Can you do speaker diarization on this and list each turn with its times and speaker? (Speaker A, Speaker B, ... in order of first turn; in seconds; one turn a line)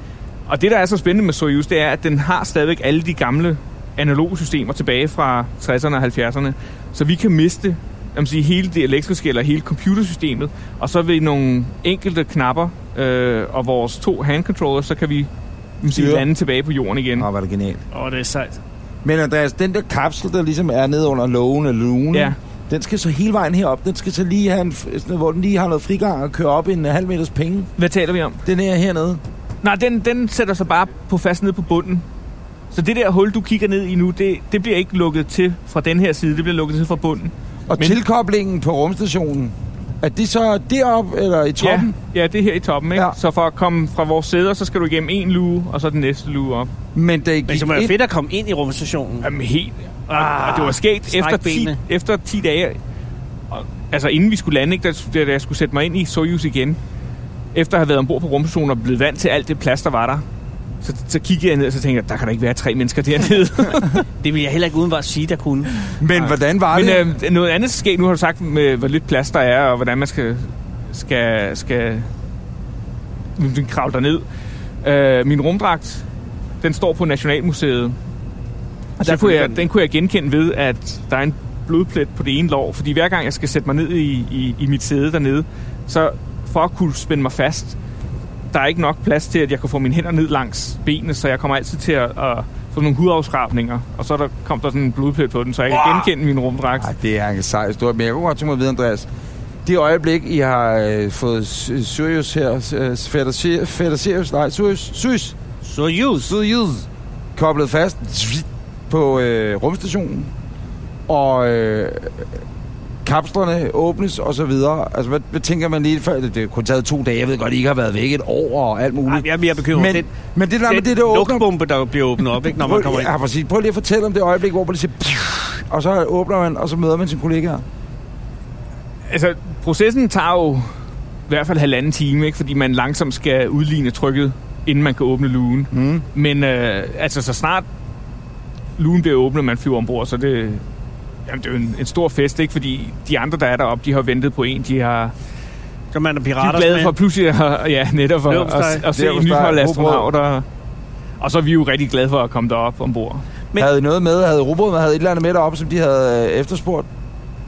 Speaker A: 0.5-15.3
Speaker A: 15.8-17.3
Speaker B: 15.9-16.3
Speaker B: 17.2-17.8
Speaker C: 17.9-18.6
Speaker B: 19.0-27.7
Speaker A: 27.8-28.4
Speaker B: 28.4-29.2
Speaker A: 29.6-32.0
Speaker A: 32.7-38.0
Speaker B: 37.7-42.0
Speaker A: 41.6-46.7
Speaker B: 47.0-48.0
Speaker C: 47.5-49.3
Speaker A: 49.2-52.8
Speaker C: 50.1-51.8
Speaker A: 53.5-56.8
Speaker A: 57.5-60.2
Speaker A: 60.8-64.1
Speaker C: 64.2-65.7
Speaker B: 66.0-67.1
Speaker A: 66.1-72.1
Speaker A: 73.4-74.2
Speaker A: 74.8-76.0
Speaker A: 76.6-78.0
Speaker A: 79.0-87.8
Speaker C: 79.0-79.6
Speaker A: 88.5-96.9
Speaker B: 96.8-99.1
Speaker B: 99.7-105.4
Speaker C: 105.6-106.3
Speaker B: 106.2-110.3
Speaker B: 111.1-112.2
Speaker B: 113.0-121.5
Speaker C: 119.1-120.1
Speaker C: 120.7-123.1
Speaker B: 122.5-127.6
Speaker A: 129.1-130.7
Speaker A: 131.3-137.7
Speaker B: 135.7-136.1
Speaker A: 138.8-140.6
Speaker A: 141.3-145.1
Speaker C: 145.9-146.9
Speaker A: 146.4-150.5
Speaker C: 148.3-148.9
Speaker B: 148.9-150.1
Speaker A: 151.2-153.2
Speaker B: 153.6-156.9